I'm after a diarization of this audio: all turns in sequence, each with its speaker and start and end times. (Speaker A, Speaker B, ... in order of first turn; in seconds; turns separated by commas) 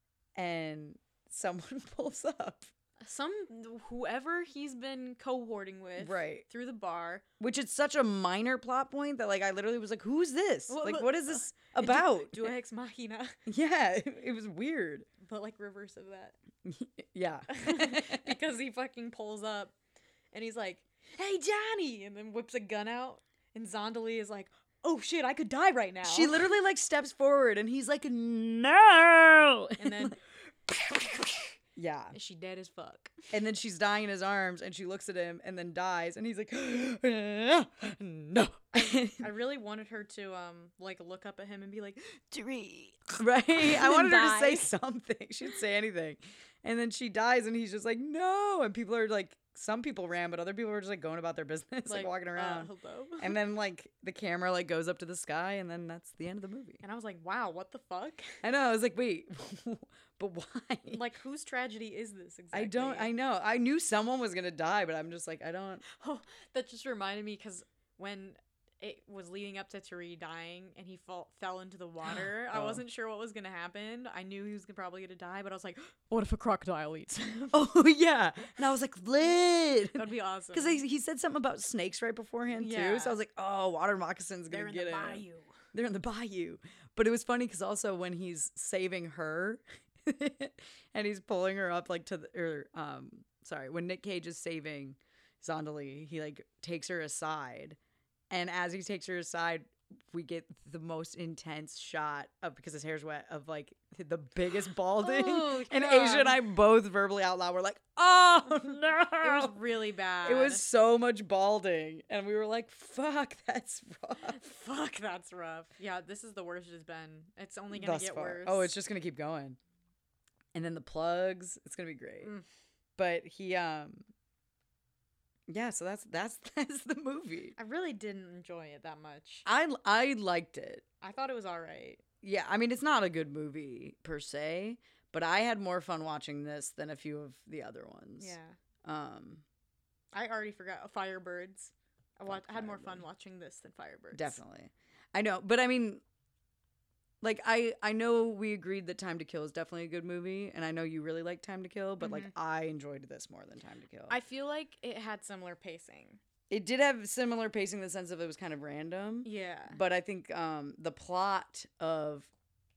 Speaker A: 0.4-2.7, Speaker B: 3.0-7.2, Speaker A: 6.0-6.4, Speaker A: 7.4-12.5, Speaker B: 10.7-13.4, Speaker A: 13.5-15.1, Speaker B: 15.2-16.4, Speaker A: 16.6-18.4, Speaker B: 17.5-19.7, Speaker B: 20.3-26.4, Speaker A: 26.0-30.1, Speaker B: 29.8-30.2, Speaker A: 30.7-32.1, Speaker B: 32.1-33.1, Speaker A: 33.3-39.3, Speaker B: 38.7-44.7, Speaker A: 43.1-56.8, Speaker B: 51.9-53.4, Speaker B: 56.8-58.4, Speaker A: 58.4-61.0, Speaker B: 60.9-63.1, Speaker A: 62.5-65.8, Speaker B: 65.9-77.5, Speaker A: 72.1-72.8, Speaker A: 77.5-97.8, Speaker B: 79.9-80.8, Speaker B: 82.5-83.2, Speaker B: 84.5-85.6, Speaker A: 98.3-109.5, Speaker B: 105.0-106.4, Speaker B: 109.2-110.6, Speaker A: 110.2-114.4, Speaker B: 114.2-118.7, Speaker A: 117.7-119.6, Speaker A: 120.5-122.3, Speaker A: 123.0-124.0, Speaker A: 125.5-127.5, Speaker B: 127.6-129.4, Speaker A: 129.4-130.8, Speaker B: 131.0-132.0, Speaker A: 132.2-139.4, Speaker B: 138.2-138.6, Speaker B: 140.1-144.4, Speaker A: 142.3-143.0, Speaker A: 144.1-146.0, Speaker A: 147.2-154.2, Speaker B: 152.0-152.3, Speaker B: 154.1-156.2, Speaker A: 156.5-162.3, Speaker B: 159.2-159.8